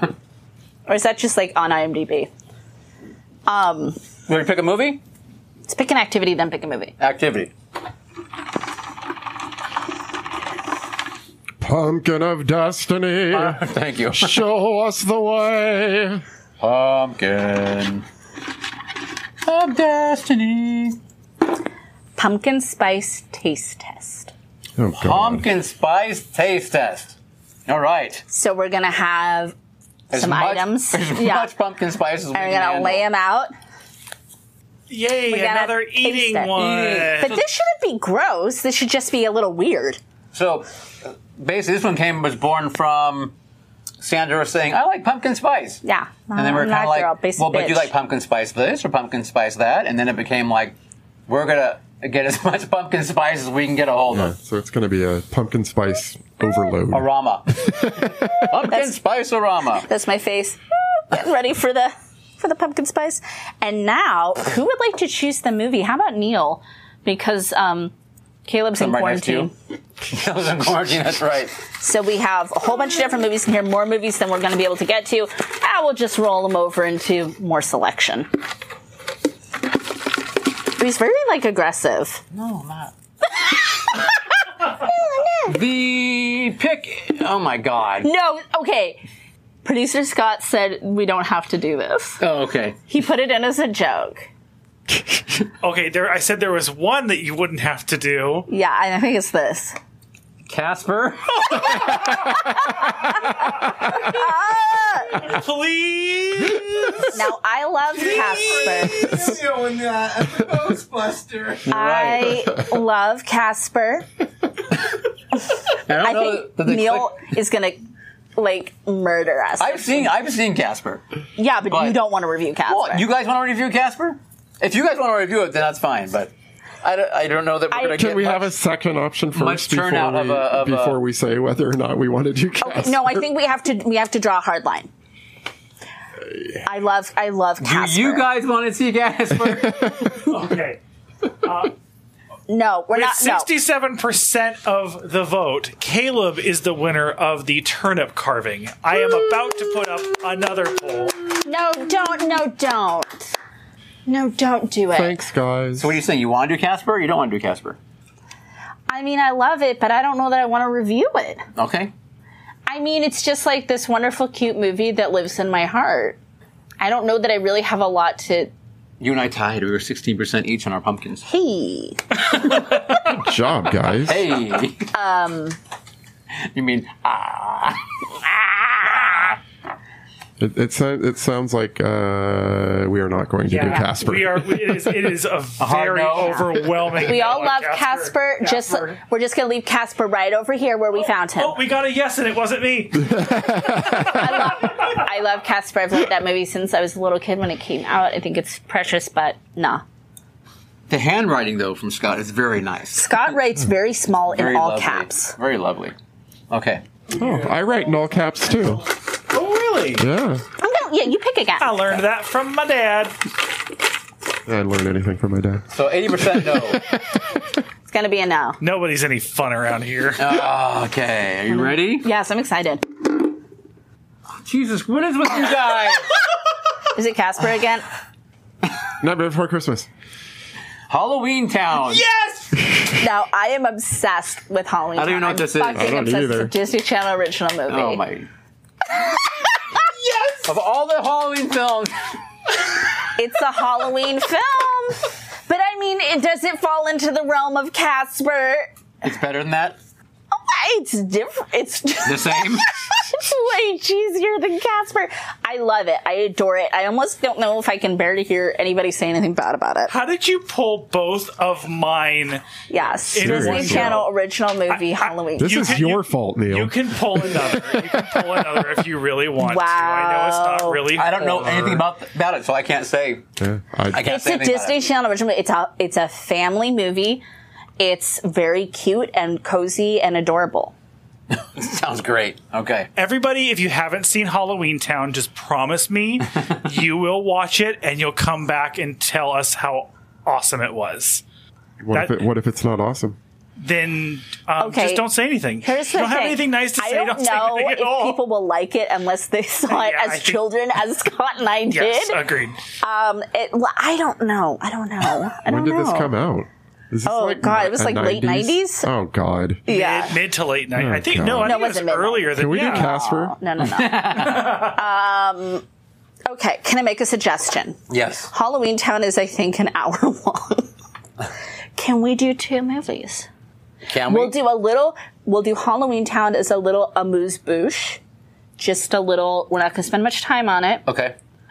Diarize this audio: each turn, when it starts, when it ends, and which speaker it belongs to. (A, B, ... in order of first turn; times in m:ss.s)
0:00.9-0:02.3 A
0:03.5-0:04.0 A
0:04.3-0:05.0 B
0:05.7-0:06.9 A
0:07.0-0:07.5 B
0:11.6-0:13.6 C
0:13.3-0:14.4 B
0:14.1-0:16.2 C
0:16.6-0:18.0 B
0:19.4-0:21.0 B
0:22.2-0:24.3 A
0:24.8-0:25.5 C
0:25.0-0:27.2 B
0:27.7-0:28.2 B
0:28.3-0:29.5 A
0:30.1-0:33.0 B
0:30.1-0:31.5 A
0:32.3-0:33.5 A
0:34.9-0:37.4 D
0:35.3-0:40.0 A
0:36.6-0:37.5 B
0:40.3-0:43.3 B
0:44.0-0:45.8 B
0:45.8-0:47.9 A
0:46.4-0:50.7 B
0:51.3-0:54.3 B
0:54.1-0:58.6 C
0:56.9-0:59.9 B
0:59.8-1:07.9 A
1:08.5-1:09.5 A
1:08.8-1:09.5 B
1:10.1-1:11.6 B
1:11.8-1:18.3 A
1:20.8-1:22.2 A
1:22.3-1:22.9 B
1:23.4-1:24.1 A
1:24.8-1:25.6 A
1:25.5-1:28.1 B
1:28.0-1:29.0 A
1:29.6-1:32.2 A
1:32.2-1:32.8 B
1:32.9-1:34.3 A
1:35.6-1:38.5 D
1:38.5-1:39.8 A
1:40.5-1:42.3 B
1:43.8-1:45.3 A
1:45.1-1:47.2 D
1:47.1-1:49.3 A
1:47.9-1:51.7 E
1:51.7-1:52.4 B
1:51.7-1:54.1 A
1:55.9-1:57.3 B
1:56.0-1:57.8 A
1:58.4-2:00.1 A
1:59.6-2:01.0 B
2:01.4-2:03.0 A
2:01.7-2:02.0 B
2:02.7-2:06.3 B
2:06.8-2:08.5 B
2:07.7-2:08.1 A
2:07.9-2:13.3 C
2:09.4-2:11.0 B
2:12.6-2:14.9 A
2:16.7-2:18.3 A
2:17.6-2:20.1 B
2:19.5-2:20.2 C
2:20.2-2:20.8 D
2:21.4-2:21.7 D
2:22.5-2:23.5 A
2:22.9-2:31.2 D
2:31.4-2:33.3 A
2:34.1-2:35.2 A
2:34.9-2:36.0 C
2:35.8-2:37.8 B
2:38.9-2:41.4 A
2:41.6-2:41.9 B
2:42.7-2:46.2 A
2:46.8-2:48.5 A
2:49.0-2:51.3 B
2:51.3-2:52.4 A
2:53.0-2:54.3 C
2:54.1-2:54.9 B
2:54.9-2:55.6 A
2:56.5-2:59.4 B
3:00.4-3:04.9 C
3:03.5-3:09.0 D
3:05.6-3:06.6 B
3:07.0-3:11.6 A
3:11.3-3:15.0 D
3:13.0-3:14.3 C
3:14.1-3:19.8 A
3:20.9-3:23.4 B
3:23.0-3:25.4 A
3:24.3-3:26.0 B
3:26.5-3:26.8 B
3:27.1-3:29.0 E
3:27.2-3:28.8 C
3:29.3-3:30.0 D
3:30.0-3:30.4 C
3:30.6-3:31.9 A
3:31.6-3:33.2 D
3:34.5-3:37.6 C
3:35.7-3:36.8 B
3:37.9-3:38.6 A
3:38.6-3:40.4 D
3:40.2-3:42.1 B
3:41.5-3:42.9 A
3:44.4-3:46.1 B
3:47.0-3:47.9 A
3:49.0-3:49.9 C
3:50.9-3:52.1 B
3:51.8-3:52.6 E
3:53.0-3:58.0 A
3:55.0-3:55.9 B
3:55.8-3:56.5 C
3:57.7-3:58.3 B
3:59.9-4:00.5 E
4:00.4-4:01.9 B
4:03.2-4:08.7 A
4:09.0-4:09.8 B
4:10.3-4:19.9 A
4:12.0-4:12.7 B
4:19.9-4:24.1 D
4:22.7-4:25.9 A
4:23.2-4:24.1 C
4:24.7-4:31.8 D
4:25.4-4:28.8 C
4:29.4-4:30.9 A
4:30.9-4:33.2 B
4:33.4-4:34.0 C
4:33.9-4:34.8 B
4:34.0-4:37.2 A
4:37.8-4:40.7 A
4:41.4-4:42.9 B
4:43.0-4:51.2 D
4:51.8-4:53.2 C
4:51.9-4:52.2 D
4:53.6-4:58.2 D
4:54.6-4:55.1 A
4:55.6-5:02.2 A
4:59.7-5:00.4 D
5:01.7-5:02.6 D
5:02.8-5:06.1 A
5:05.4-5:09.6 C
5:07.1-5:08.9 A
5:09.7-5:10.2 A
5:09.7-5:12.9 D
5:10.7-5:11.6 C
5:11.4-5:15.6 A
5:12.3-5:13.4 C
5:13.7-5:14.7 B
5:14.2-5:14.7 D
5:16.2-5:17.8 A
5:17.9-5:18.3 B
5:18.3-5:20.7 A
5:21.8-5:23.3 A
5:23.9-5:24.4 B
5:24.0-5:28.0 A
5:28.6-5:30.8 A
5:30.9-5:31.2 B